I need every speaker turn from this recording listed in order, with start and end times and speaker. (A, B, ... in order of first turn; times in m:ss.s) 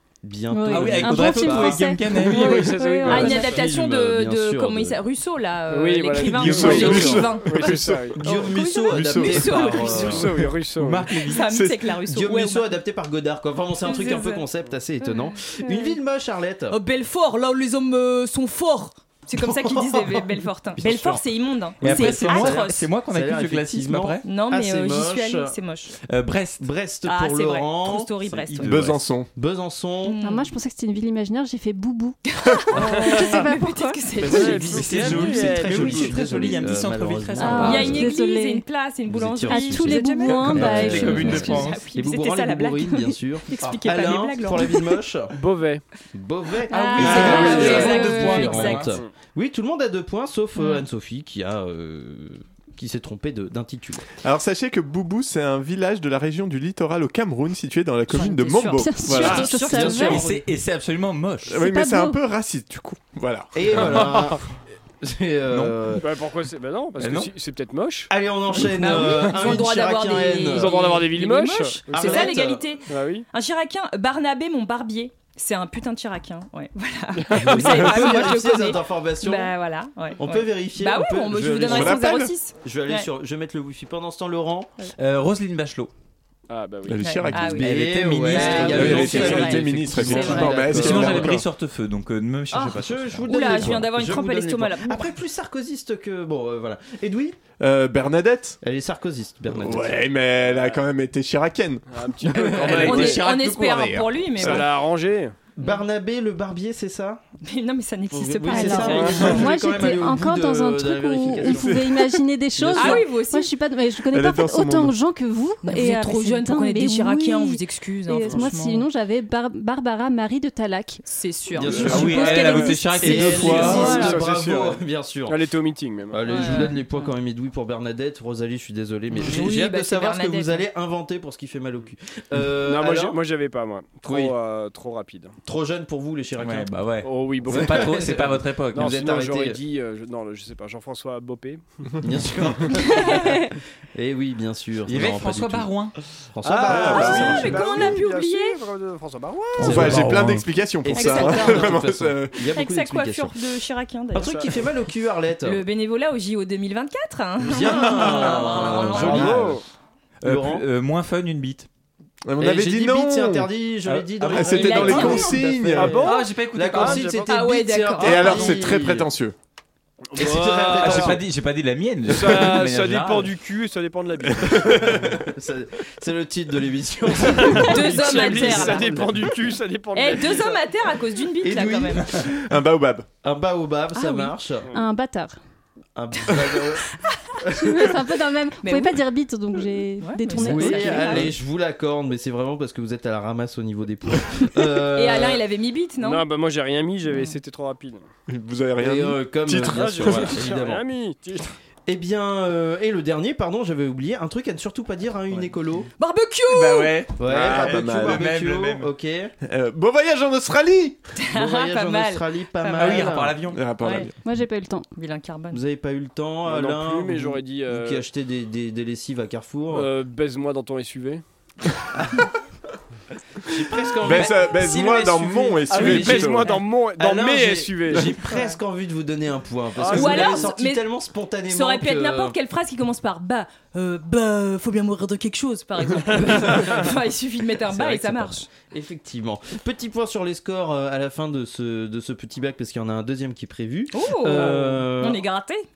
0:00.2-0:01.8 A
0:00.5-0:03.5 B
0:00.7-0:02.8 C
0:02.1-0:03.4 D
0:02.3-0:10.3 E
0:03.1-0:05.0 A
0:05.7-0:08.2 D
0:06.4-0:08.2 F
0:06.6-0:07.3 A
0:08.1-0:10.3 A
0:08.9-0:10.5 F
0:09.7-0:11.1 D
0:10.7-0:11.4 C
0:11.1-0:12.8 E
0:11.3-0:11.8 F
0:12.1-0:16.8 A
0:13.8-0:14.4 E
0:15.0-0:15.9 E
0:16.7-0:22.9 E
0:19.4-0:21.1 A
0:20.8-0:21.2 C
0:21.8-0:24.2 C
0:21.8-0:25.5 A
0:24.2-0:25.9 E
0:26.1-0:26.7 C
0:26.6-0:28.1 A
0:27.0-0:28.7 E
0:28.2-0:29.1 C
0:28.6-0:29.3 F
0:29.4-0:30.2 A
0:30.0-0:30.5 E
0:30.2-0:34.1 B
0:32.3-0:34.8 E
0:34.2-0:38.0 A
0:34.2-0:36.4 D
0:34.7-0:38.1 C
0:37.4-0:38.6 B
0:37.6-0:45.0 E
0:39.1-0:45.4 A
0:39.5-0:41.8 B
0:40.4-0:41.9 C
0:45.3-0:45.8 D
0:46.1-0:54.0 A
0:46.7-0:49.0 E
0:46.7-0:48.1 B
0:46.8-0:49.0 C
0:47.2-0:47.8 D
0:50.6-0:50.9 E
0:54.2-0:59.6 F
0:58.1-1:00.2 E
0:58.7-1:00.2 B
0:59.1-1:00.4 A
0:59.9-1:01.5 C
1:01.5-1:04.1 F
1:01.5-1:02.2 B
1:03.5-1:04.4 A
1:04.0-1:04.3 D
1:05.0-1:06.1 A
1:05.5-1:05.8 C
1:06.0-1:08.1 D
1:07.0-1:07.3 C
1:08.1-1:10.8 A
1:08.7-1:23.1 E
1:10.5-1:13.2 D
1:11.9-1:12.7 A
1:17.2-1:18.2 D
1:17.4-1:19.5 A
1:20.2-1:24.7 A
1:21.6-1:22.3 F
1:25.0-1:25.9 C
1:26.5-1:27.2 D
1:26.9-1:27.8 F
1:27.0-1:30.5 E
1:27.4-1:33.8 C
1:27.6-1:31.4 A
1:28.4-1:31.4 F
1:32.5-1:37.4 A
1:33.2-1:35.1 E
1:37.6-1:38.6 F
1:38.6-1:40.0 A
1:39.5-1:41.9 F
1:40.4-1:40.8 D
1:41.9-1:43.2 D
1:42.2-1:43.1 A
1:42.4-1:44.2 C
1:42.7-1:44.7 E
1:44.4-1:45.4 D
1:45.5-1:47.2 A
1:47.4-1:49.9 E
1:48.1-1:51.8 A
1:48.4-2:01.0 B
1:49.0-1:49.4 D
1:51.4-1:52.2 F
1:52.6-1:53.0 A
1:52.7-1:53.5 E
1:54.1-1:54.9 F
1:55.6-1:58.9 E
2:01.0-2:02.8 E
2:01.5-2:05.4 A
2:01.7-2:04.2 B
2:01.8-2:04.1 C
2:03.2-2:04.2 F
2:03.9-2:06.5 D
2:06.1-2:13.2 A
2:06.2-2:06.8 E
2:09.2-2:10.7 E
2:12.6-2:15.4 D
2:14.0-2:14.4 A
2:15.4-2:16.7 A
2:16.4-2:19.0 C
2:17.0-2:21.6 D
2:17.4-2:19.6 A
2:22.0-2:25.7 A
2:22.9-2:23.3 E
2:24.9-2:25.9 C
2:26.3-2:27.9 A
2:26.4-2:29.8 D
2:26.7-2:27.6 F
2:26.7-2:28.6 E
2:29.6-2:30.5 C
2:29.6-2:30.1 A
2:29.6-2:32.5 F
2:30.8-2:33.4 A
2:30.9-2:31.8 E
2:32.6-2:34.6 E
2:34.1-2:35.6 A
2:34.2-2:34.6 D
2:35.4-2:39.4 E
2:37.4-2:39.6 A
2:37.6-2:39.4 C
2:39.0-2:39.6 D
2:39.0-2:39.5 F
2:40.2-2:41.7 C
2:40.2-2:40.6 A
2:42.2-2:43.5 F
2:42.4-2:49.1 A
2:44.0-2:45.2 C
2:44.3-2:46.1 F
2:44.5-2:45.4 E
2:45.7-2:47.4 D
2:46.0-2:47.2 C
2:47.2-2:48.6 E
2:48.0-2:49.4 F
2:50.1-2:51.2 D
2:50.2-2:51.2 A
2:50.8-2:53.3 C
2:52.0-2:54.8 D
2:54.3-2:55.2 F
2:54.9-2:59.2 A
2:57.2-3:00.6 D
2:57.4-2:58.9 E
2:59.9-3:02.1 E
3:01.4-3:02.3 A
3:02.2-3:03.1 F
3:03.2-3:04.7 A
3:04.0-3:04.3 E
3:04.7-3:05.4 B
3:06.0-3:06.9 A
3:07.4-3:07.9 A
3:07.5-3:11.3 B
3:08.6-3:09.0 E
3:10.0-3:11.3 E
3:10.4-3:15.4 A
3:15.0-3:16.2 E
3:16.0-3:18.0 D
3:17.1-3:17.4 E
3:18.3-3:20.4 F
3:18.8-3:20.8 A
3:19.6-3:21.5 D
3:21.9-3:25.9 A
3:26.0-3:27.0 E
3:26.4-3:28.9 C
3:27.2-3:29.3 A
3:27.3-3:28.2 F
3:29.4-3:31.0 F
3:31.2-3:33.2 E
3:31.3-3:33.4 A
3:32.7-3:33.6 C
3:33.5-3:34.2 F
3:33.8-3:34.1 E
3:34.2-3:34.9 B
3:35.0-3:35.6 E
3:35.5-3:39.9 A
3:36.4-3:38.0 D
3:39.7-3:41.2 D
3:43.5-3:44.5 A
3:44.0-3:46.6 F
3:44.5-3:46.0 C
3:45.6-3:48.1 D
3:45.8-3:52.3 A
3:49.8-3:50.5 D
3:49.9-3:50.8 E
3:51.5-3:58.5 E
3:56.3-3:56.9 A
3:57.6-4:05.2 A
4:03.9-4:05.6 E
4:04.3-4:04.8 D